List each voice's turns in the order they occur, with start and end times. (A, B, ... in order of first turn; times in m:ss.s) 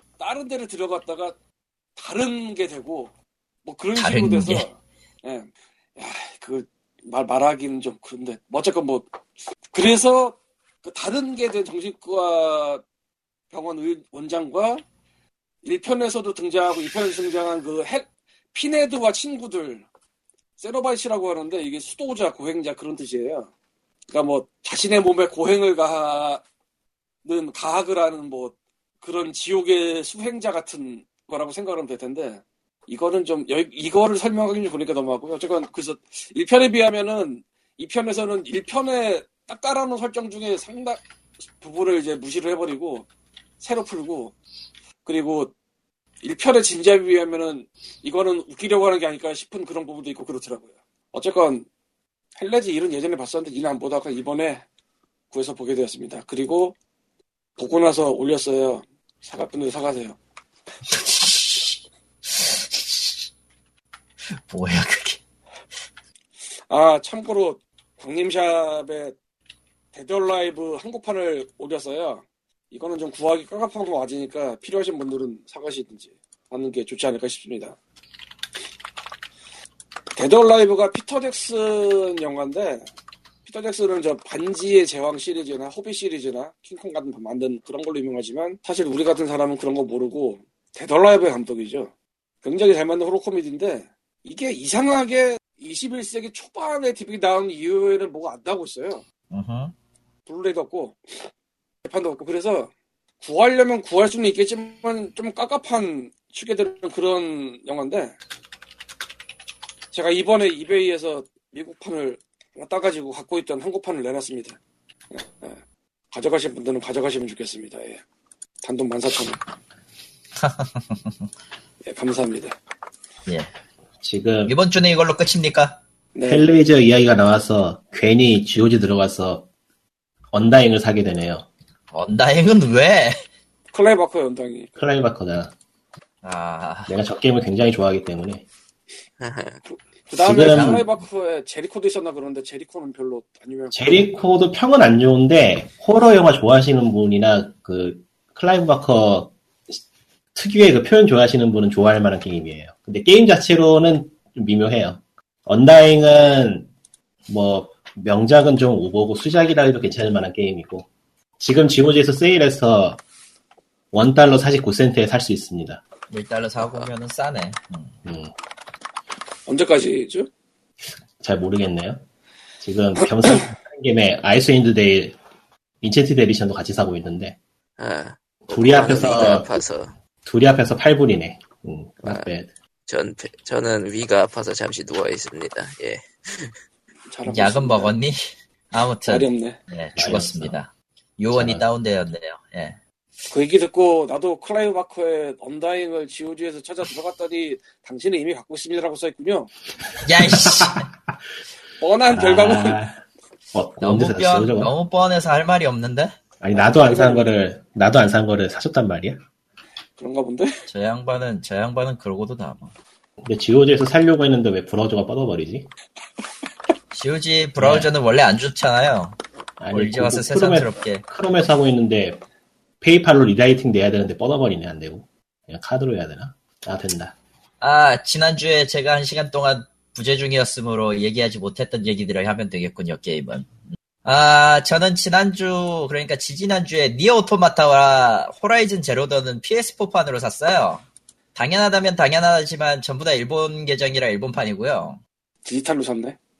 0:00.2-0:01.4 A
0:02.0-0:03.1 A
0:03.6-0:09.1 A
0:03.9-0:04.6 B
0:09.7-0:12.8 A
0:13.5-0:14.8 A
0:15.6-0:19.8 A
0:20.6-0:23.5 A
0:24.1-0:26.4 A
0:27.2-0:41.0 A
0:41.6-0:43.1 A
0:43.6-0:44.3 A
0:45.0-0:45.5 A
0:46.2-0:51.7 A
0:52.4-0:54.6 A
0:55.3-0:56.8 A
0:57.6-1:00.2 A
1:00.9-1:01.8 B
1:02.3-1:03.2 B
1:04.3-1:05.2 B
1:06.7-1:09.2 A
1:09.9-1:17.8 A
1:20.1-1:22.9 A
1:23.4-1:31.9 A
1:32.4-1:39.0 A
1:39.3-1:39.7 B
1:40.3-1:41.3 A
1:41.8-1:42.7 A
1:43.2-1:48.2 A
1:49.9-1:54.6 A
1:55.1-1:55.6 A
1:56.1-1:58.0 A
1:58.6-1:59.4 A
2:00.4-2:01.1 B
2:01.9-2:02.5 A
2:04.0-2:04.5 C
2:04.4-2:05.8 B
2:06.1-2:06.4 A
2:06.2-2:09.4 C
2:10.3-2:11.4 C
2:11.9-2:13.2 B
2:13.7-2:14.7 A
2:14.8-2:15.5 C
2:16.2-2:16.9 B
2:16.9-2:18.4 C
2:19.2-2:19.6 D
2:19.7-2:24.0 A
2:20.2-2:20.8 C
2:20.3-2:20.9 B
2:23.7-2:29.8 C
2:30.3-2:36.7 C
2:37.3-2:40.9 C
2:41.4-2:43.0 C
2:43.9-2:45.8 C
2:46.1-2:47.9 B
2:48.0-2:48.3 C
2:49.5-2:50.3 A
2:51.2-2:52.0 C
2:52.6-2:55.2 C
2:55.8-2:57.4 C
2:57.8-2:59.9 D
2:58.5-2:59.5 C
3:00.2-3:02.5 C
3:02.0-3:02.3 D
3:02.9-3:06.5 D
3:07.1-3:08.0 A
3:07.2-3:12.8 B
3:09.0-3:09.6 A
3:10.0-3:10.6 C
3:11.3-3:11.6 C
3:13.3-3:19.5 A
3:20.0-3:20.9 B
3:20.3-3:20.8 C
3:21.8-3:22.8 A
3:22.1-3:23.0 C
3:23.5-3:24.7 C
3:23.8-3:26.2 B
3:26.4-3:29.2 C
3:26.8-3:27.2 A
3:30.0-3:30.6 A
3:30.7-3:32.7 B
3:33.2-3:35.7 C
3:36.9-3:39.2 B
3:37.6-3:37.9 C
3:39.6-3:42.2 C
3:39.7-3:41.0 B
3:42.8-3:47.1 C
3:47.6-3:53.5 B
3:54.0-4:00.8 B
4:01.3-4:05.0 B
4:05.4-4:06.2 A